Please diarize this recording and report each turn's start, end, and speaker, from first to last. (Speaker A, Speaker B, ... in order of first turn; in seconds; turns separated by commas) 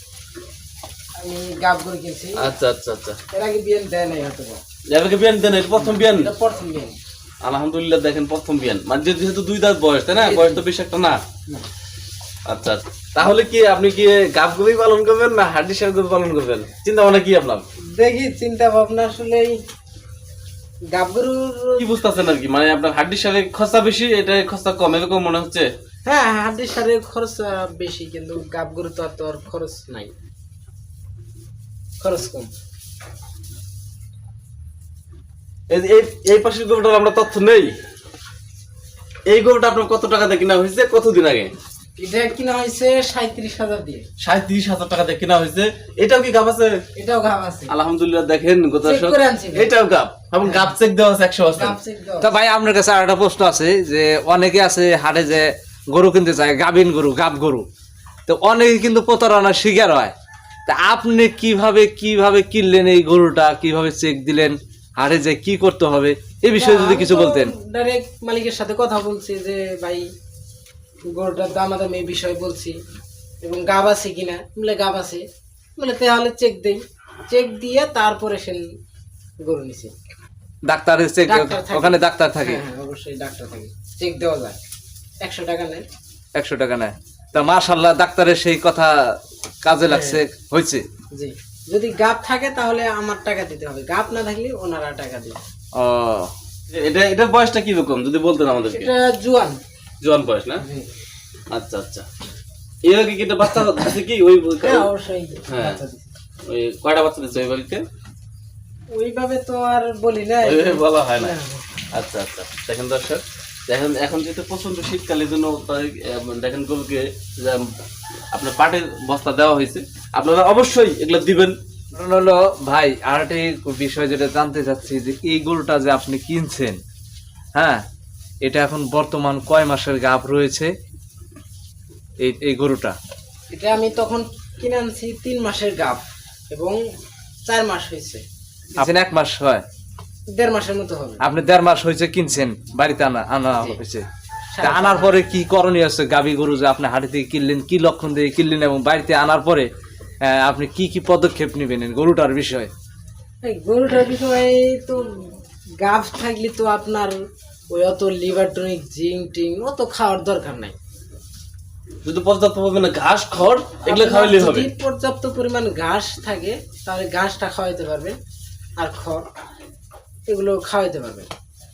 Speaker A: 1.2-2.5, Speaker B: 2.4-3.2, Speaker A: 3.3-4.6, Speaker B: 4.9-6.3, Speaker A: 5.8-7.0, Speaker B: 7.4-11.2, Speaker A: 10.1-10.6, Speaker B: 12.4-17.6, Speaker A: 17.9-19.6, Speaker A: 20.9-21.9, Speaker B: 21.8-25.7, Speaker A: 26.1-30.1, Speaker A: 32.0-32.5, Speaker B: 35.7-37.7, Speaker B: 39.3-41.5, Speaker A: 42.0-44.0, Speaker B: 44.2-46.7, Speaker A: 47.0-47.7, Speaker B: 47.7-51.8, Speaker A: 48.8-49.7, Speaker A: 50.4-50.7, Speaker A: 51.5-52.3, Speaker C: 52.2-57.6, Speaker C: 58.3-60.1, Speaker C: 60.6-67.5, Speaker A: 66.5-70.0, Speaker A: 71.1-72.8, Speaker A: 73.4-75.2, Speaker A: 75.8-78.6, Speaker A: 79.4-79.9, Speaker C: 80.7-82.6, Speaker A: 81.2-84.6, Speaker A: 85.2-85.8, Speaker C: 86.3-88.9, Speaker C: 89.6-90.8, Speaker A: 89.9-90.2, Speaker A: 91.1-95.4, Speaker C: 95.7-96.3, Speaker B: 96.7-98.9, Speaker A: 98.7-99.6, Speaker B: 100.0-100.6, Speaker A: 100.6-100.9, Speaker B: 101.5-102.0, Speaker B: 102.8-104.9, Speaker A: 104.6-106.1, Speaker B: 105.5-105.8, Speaker B: 106.5-107.8, Speaker A: 108.9-111.6, Speaker B: 110.4-111.3, Speaker B: 111.9-117.7, Speaker B: 118.3-121.5, Speaker C: 121.9-126.8, Speaker C: 127.5-127.8, Speaker C: 128.4-130.7, Speaker C: 132.2-132.9, Speaker A: 133.5-136.8, Speaker A: 137.4-138.2, Speaker C: 138.8-139.6, Speaker A: 140.3-141.2, Speaker C: 141.2-144.0, Speaker A: 144.5-145.2, Speaker C: 144.7-149.7, Speaker C: 150.2-152.7, Speaker A: 153.4-157.2, Speaker A: 157.7-160.7, Speaker B: 162.0-164.7, Speaker A: 163.8-168.2, Speaker A: 168.8-169.2, Speaker A: 170.3-171.3